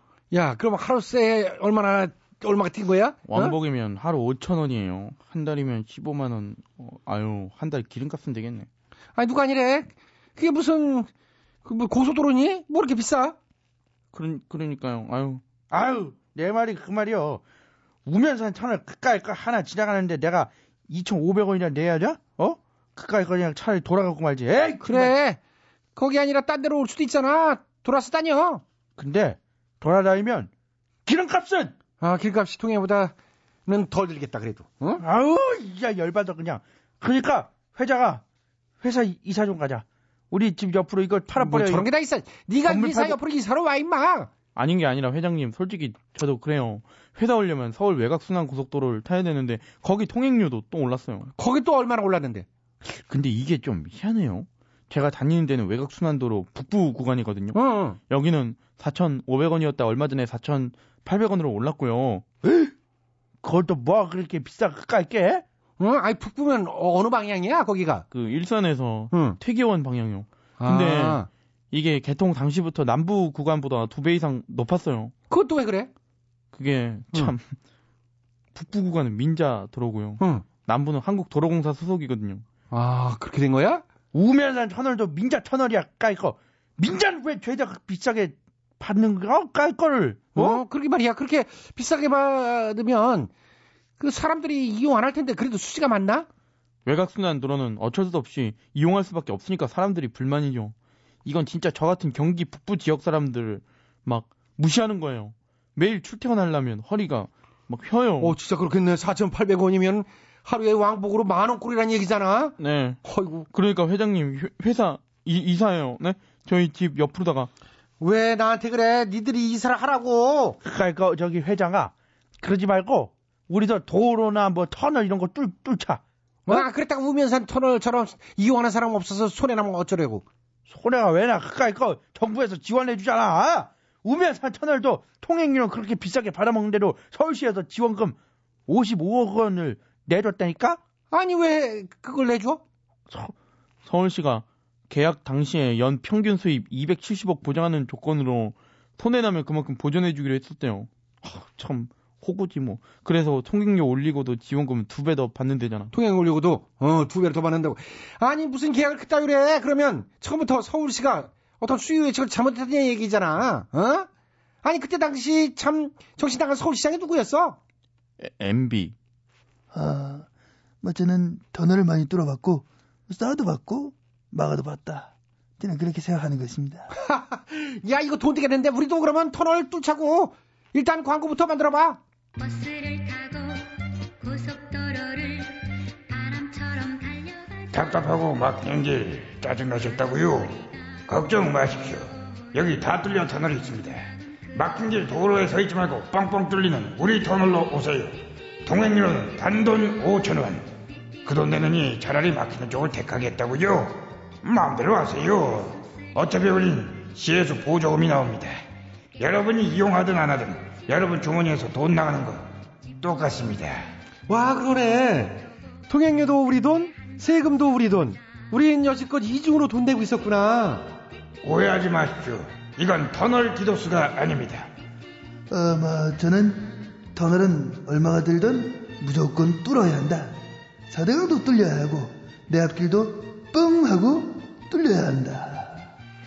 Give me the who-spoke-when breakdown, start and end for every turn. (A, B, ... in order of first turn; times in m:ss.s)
0:00.3-0:03.6 A
0:03.2-0:08.7 B
0:09.2-0:11.1 A
0:11.6-0:13.4 A
0:14.1-0:15.4 B
0:15.7-0:17.4 C
0:18.0-0:25.1 C
0:24.8-0:25.4 A
0:26.0-0:28.6 A
0:29.0-0:30.5 C
0:31.0-0:31.8 C
0:32.0-0:33.1 A
0:33.6-0:35.0 A
0:35.0-0:38.2 C
0:38.8-0:41.8 C
0:41.4-0:44.3 A
0:42.6-0:43.2 C
0:44.5-0:51.3 B
0:51.4-0:52.5 A
0:52.8-0:57.6 B
0:57.5-0:58.0 A
0:58.1-1:02.2 B
1:03.4-1:05.4 C
1:05.8-1:08.0 A
1:08.1-1:15.1 B
1:09.1-1:09.4 A
1:10.6-1:11.3 A
1:15.3-1:15.9 A
1:16.5-1:17.4 B
1:18.5-1:22.4 B
1:20.2-1:20.4 A
1:22.7-1:23.8 A
1:24.1-1:30.6 C
1:30.3-1:33.3 A
1:34.0-1:36.3 A
1:36.8-1:40.7 B
1:41.2-1:48.3 B
1:48.2-1:53.5 A
1:52.6-1:53.0 B
1:53.5-1:57.5 B
1:58.0-2:00.6 A
2:00.6-2:06.0 C
2:06.4-2:10.2 A
2:10.7-2:20.8 C
2:21.1-2:22.6 A
2:23.8-2:35.9 B
2:35.9-2:44.1 A
2:44.6-2:47.6 A
2:48.2-2:48.9 B
2:49.7-2:50.2 D
2:50.8-2:56.9 D
2:57.0-3:02.0 A
3:02.4-3:07.6 E
3:07.7-3:20.7 F
3:21.2-3:28.6 F
3:29.2-3:33.9 F
3:34.3-3:41.0 A
3:41.4-3:44.7 F
3:45.5-3:50.4 D
3:50.9-3:55.8 D